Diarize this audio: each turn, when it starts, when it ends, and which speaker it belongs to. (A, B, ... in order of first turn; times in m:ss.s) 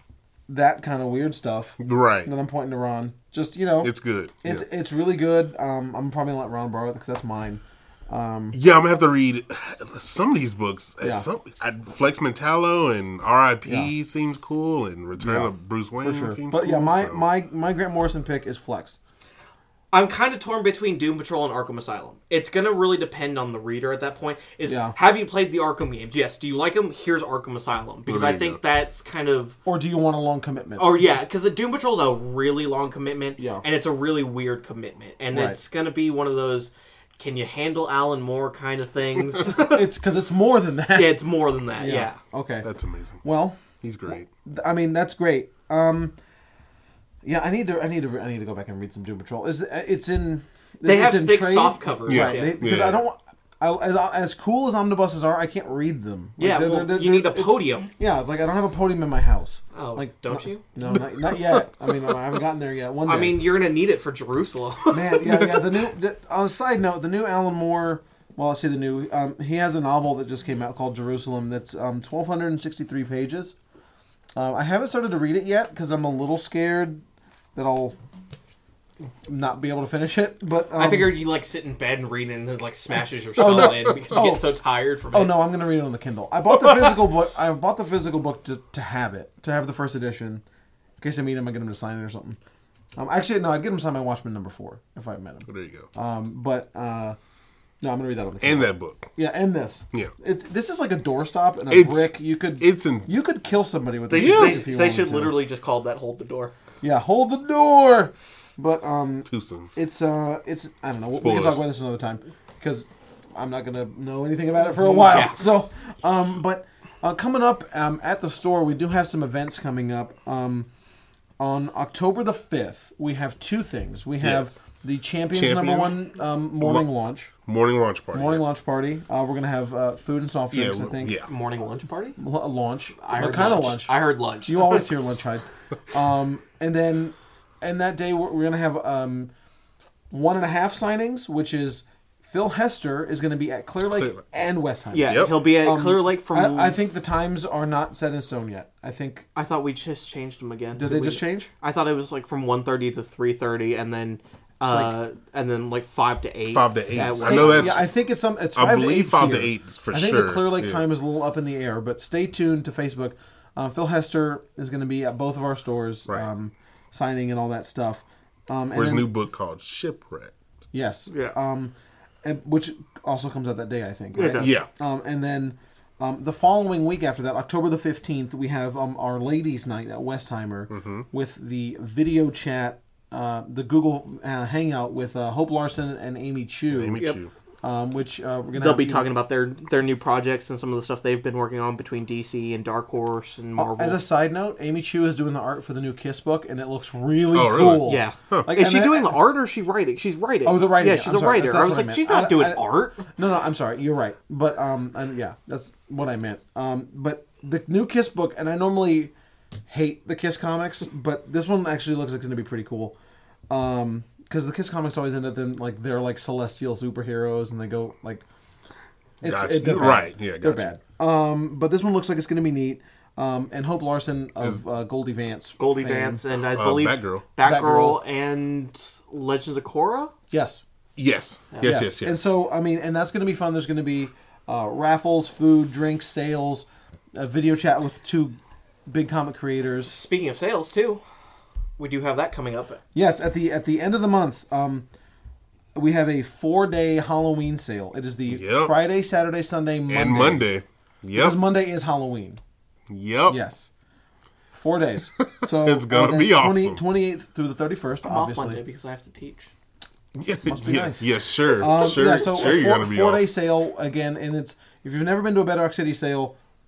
0:00.5-0:08.6 A
0:01.8-0:02.3 B
0:03.8-0:04.6 B
0:08.5-0:17.2 B
0:11.0-0:11.3 A
0:13.6-0:13.9 A
0:15.2-0:19.0 A
0:19.9-0:29.6 C
0:24.7-0:25.0 A
0:28.1-0:28.6 B
0:29.7-0:31.0 A
0:30.8-0:39.9 C
0:33.4-0:33.6 A
0:35.3-0:35.6 A
0:39.4-0:42.7 A
0:40.9-0:42.2 C
0:42.6-0:43.2 B
0:43.2-0:43.6 A
0:43.8-0:44.3 B
0:44.1-0:46.1 A
0:47.2-1:03.4 A
0:50.8-0:52.6 C
0:52.1-0:53.0 B
0:56.4-0:57.9 C
0:59.7-1:01.7 C
1:03.1-1:05.5 C
1:04.9-1:13.6 A
1:14.4-1:17.0 A
1:17.6-1:18.0 A
1:19.3-1:21.2 A
1:20.8-1:25.4 C
1:23.4-1:24.5 A
1:25.1-1:30.4 A
1:31.0-1:32.4 A
1:33.0-1:37.2 A
1:35.5-1:35.9 B
1:37.8-1:45.4 A
1:38.4-1:39.1 B
1:41.7-1:43.1 B
1:44.1-1:46.5 C
1:44.1-1:44.6 B
1:46.8-2:00.7 A
1:49.3-1:49.7 B
1:51.1-1:51.6 B
1:54.8-1:55.5 C
2:01.4-2:07.3 A
2:04.2-2:04.6 B
2:05.3-2:06.0 B
2:06.6-2:06.9 B
2:07.4-2:08.5 B
2:08.1-2:11.2 A
2:10.5-2:11.3 B
2:11.2-2:12.2 C
2:12.2-2:19.3 A
2:13.0-2:14.9 C
2:20.1-2:29.3 A
2:23.9-2:24.2 B
2:24.9-2:26.8 C
2:25.1-2:25.4 B
2:29.4-2:37.8 C
2:30.8-2:31.5 A
2:34.6-2:34.9 A
2:36.5-2:37.9 B
2:37.0-2:49.1 A
2:38.6-2:40.8 B
2:48.7-2:50.3 B
2:50.7-3:07.0 A
2:51.1-2:51.4 C
2:54.2-2:54.6 C
2:54.4-2:54.7 B
3:00.7-3:01.0 B
3:06.7-3:07.3 B
3:07.6-3:09.1 A
3:08.5-3:14.0 C
3:13.6-3:19.2 A
3:17.3-3:18.5 B
3:17.8-3:23.0 C
3:20.4-3:29.1 A
3:29.7-3:33.0 A
3:33.5-3:38.2 A
3:39.2-3:46.2 A
3:39.2-3:40.7 B
3:45.6-3:50.1 C
3:46.5-3:47.2 B
3:47.4-3:48.0 A
3:50.3-3:50.6 A
3:51.0-3:52.2 B
3:51.6-3:59.9 A
3:59.8-4:01.0 C
4:01.8-4:02.8 C
4:02.9-4:04.9 A
4:05.8-4:10.4 A
4:08.3-4:08.8 B
4:09.9-4:11.4 B
4:11.1-4:12.4 A
4:12.9-4:13.4 B
4:13.3-4:13.7 A
4:14.5-4:18.6 A
4:15.2-4:16.8 B
4:18.0-4:19.5 C
4:20.2-4:23.2 B
4:20.5-4:26.4 A